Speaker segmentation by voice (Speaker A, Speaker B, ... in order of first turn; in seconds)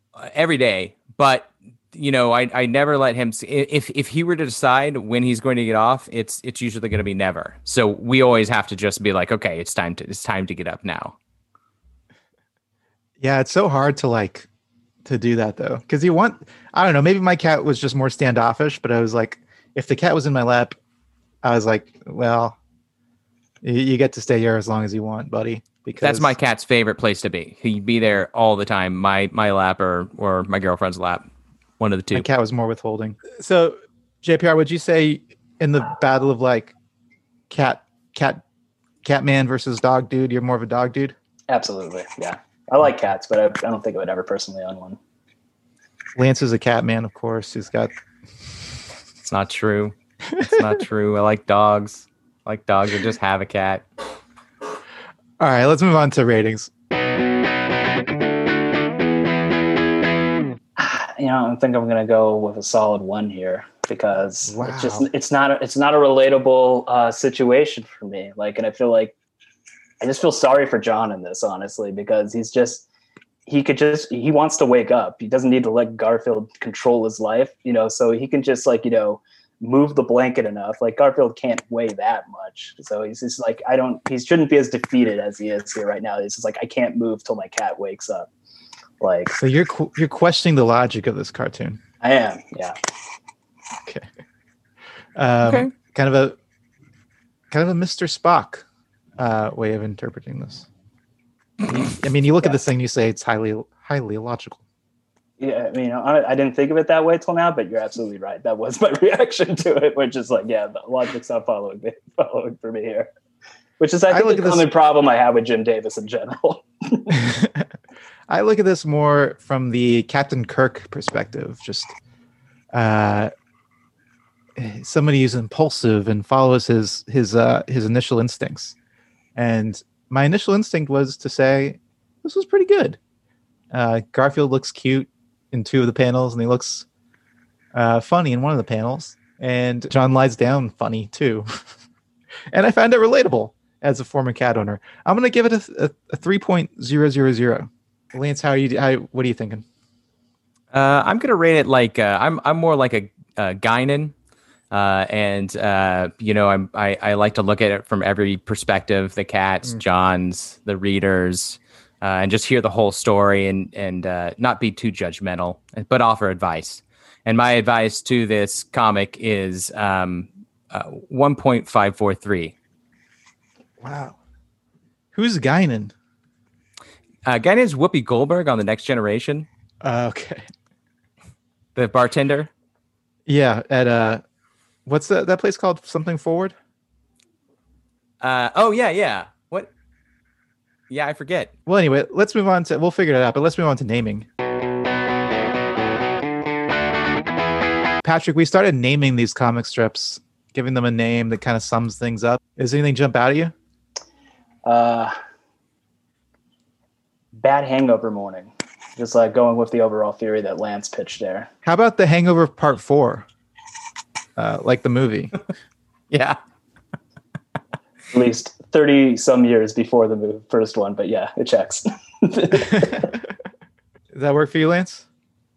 Speaker A: 0.2-11.2, 26.0-31.2, 31.8-32.3, 49.2-53.9, 95.4-95.7, 150.7-154.1, 154.7-172.5, 177.3-179.5, 181.8-182.5, 188.2-189.7, 190.9-191.5, 216.1-216.4
Speaker B: 13.2-14.5, 15.1-20.8, 21.4-22.6, 23.6-26.4, 32.1-36.7, 37.5-38.4, 39.0-41.1, 46.2-47.9, 50.3-50.6, 55.4-56.7, 64.5-65.1, 89.4-91.8, 95.2-96.4, 97.5-98.7, 99.2-100.7, 101.8-104.6, 114.1-114.7, 117.1-117.7, 118.3-122.0, 122.7-123.3, 124.6-128.8, 129.4-133.0, 133.7-136.9, 137.7-141.5, 142.5-149.7, 173.8-174.2, 175.1-175.9, 179.8-180.4, 183.3-184.2, 184.9-186.6, 191.7-194.3, 198.0-203.5, 211.7-213.3, 214.4-215.4, 222.6-223.2, 224.1-225.1
Speaker C: 41.5-45.0, 60.8-69.2, 70.0-72.9, 73.5-88.3, 89.0-89.4, 92.0-92.8, 105.4-113.1, 113.8-117.2, 204.7-205.1, 207.4-211.5, 218.1-223.1